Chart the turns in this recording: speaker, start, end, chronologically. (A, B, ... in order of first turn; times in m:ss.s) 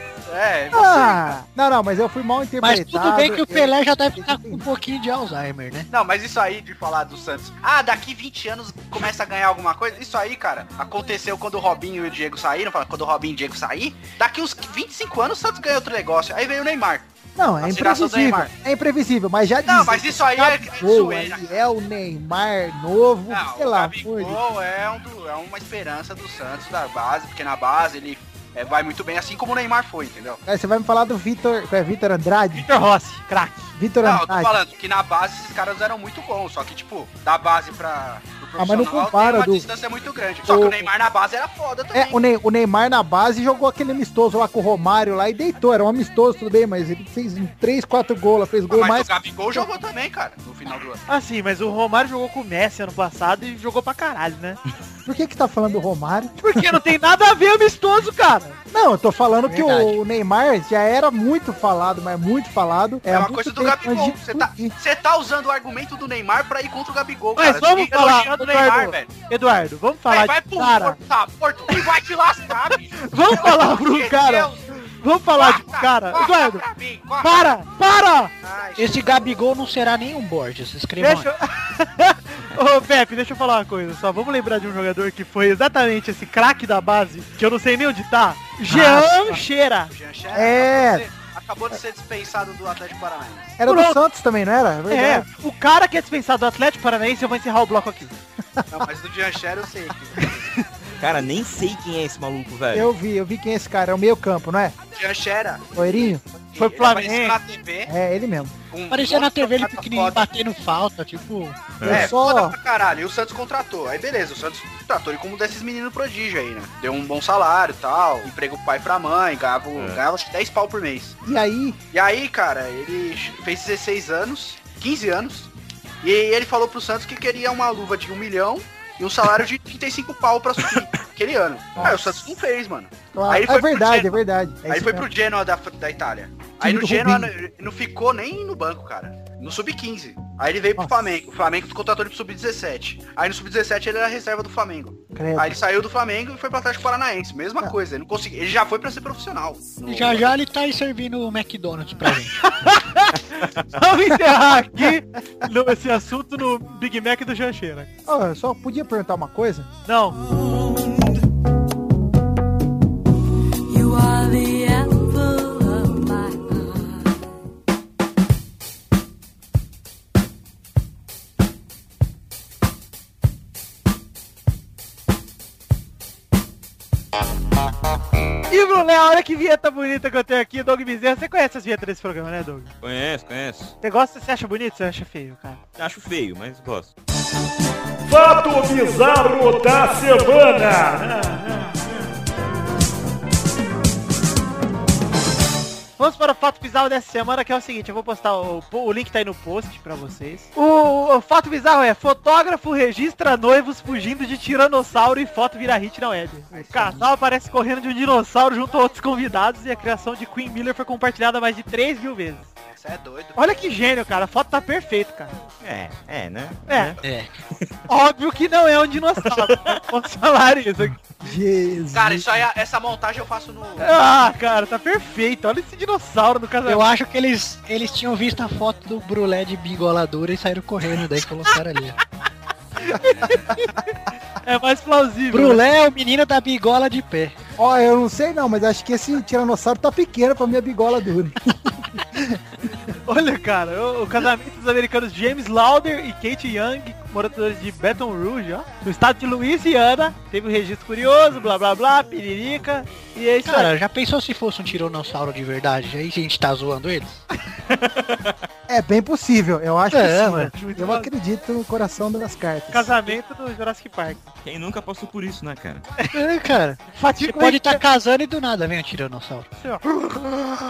0:00.3-0:01.4 A
0:00.7-0:04.7 B
0:02.6-0:05.9 C
0:05.9-0:17.1 A
0:17.4-0:24.4 B
0:17.6-0:18.5 A
0:19.7-0:21.6 A
0:23.3-0:30.4 A
0:30.5-0:32.7 B
0:32.6-0:33.7 D
0:33.8-0:34.5 B
0:34.0-0:42.2 A
0:38.6-0:39.7 B
0:40.5-0:40.9 B
0:41.9-0:49.7 B
0:48.7-0:51.0 A
0:51.1-0:54.6 D
0:55.1-0:56.8 B
0:56.4-0:58.6 D
0:58.7-1:04.7 B
0:59.5-1:00.0 C
1:03.1-1:09.1 A
1:07.4-1:11.0 D
1:10.1-1:14.7 A
1:13.0-1:16.6 D
1:15.3-1:17.6 A
1:17.2-1:18.3 D
1:18.4-1:19.3 A
1:18.8-1:21.3 C
1:21.0-1:29.9 D
1:28.7-1:29.4 B
1:29.9-1:33.6 A
1:30.3-1:31.1 B
1:33.6-1:35.3 B
1:33.7-1:34.0 D
1:34.9-1:38.1 D
1:38.6-1:38.9 B
1:38.7-1:40.5 A
1:41.0-1:42.9 E
1:42.7-1:44.8 B
1:45.0-1:47.9 A
1:45.8-1:46.2 B
1:46.6-1:47.4 D
1:47.9-1:48.6 B
1:48.7-1:50.2 A
1:48.9-1:51.6 C
1:51.8-1:52.1 E
1:51.8-1:52.6 B
1:51.8-2:01.2 A
1:59.8-2:00.0 E
2:01.2-2:01.8 B
2:01.9-2:05.5 A
2:06.0-2:14.1 A
2:13.1-2:15.1 B
2:14.7-2:30.3 A
2:16.6-2:17.3 B
2:25.1-2:25.6 B
2:29.9-2:32.4 C
2:32.4-2:37.9 D
2:38.1-2:39.7 B
2:39.9-2:40.2 D
2:43.7-2:46.8 F
2:58.5-3:02.7 D
3:02.8-3:03.7 E
3:03.8-3:05.6 D
3:05.8-3:06.9 E
3:08.1-3:11.4 G
3:11.2-3:11.7 D
3:16.0-3:32.5 D
3:32.7-3:33.4 A
3:33.4-3:35.4 D
3:35.6-3:37.0 E
3:36.7-3:37.0 D
3:37.0-3:37.3 C
3:37.9-3:41.0 D
3:39.3-3:39.8 E
3:41.2-3:42.4 B
3:41.9-3:44.0 A
3:43.8-3:46.8 D
3:46.7-3:52.0 C
3:52.8-3:55.6 D
3:55.3-3:57.4 C
3:57.6-4:02.2 B
4:03.1-4:13.7 D
4:13.4-4:17.2 C
4:17.7-4:18.3 E
4:18.7-4:22.9 B
4:19.9-4:20.5 C
4:20.5-4:21.1 D
4:22.7-4:24.3 D
4:24.4-4:25.9 E
4:26.1-4:29.5 C
4:27.0-4:27.8 D
4:29.6-4:30.0 D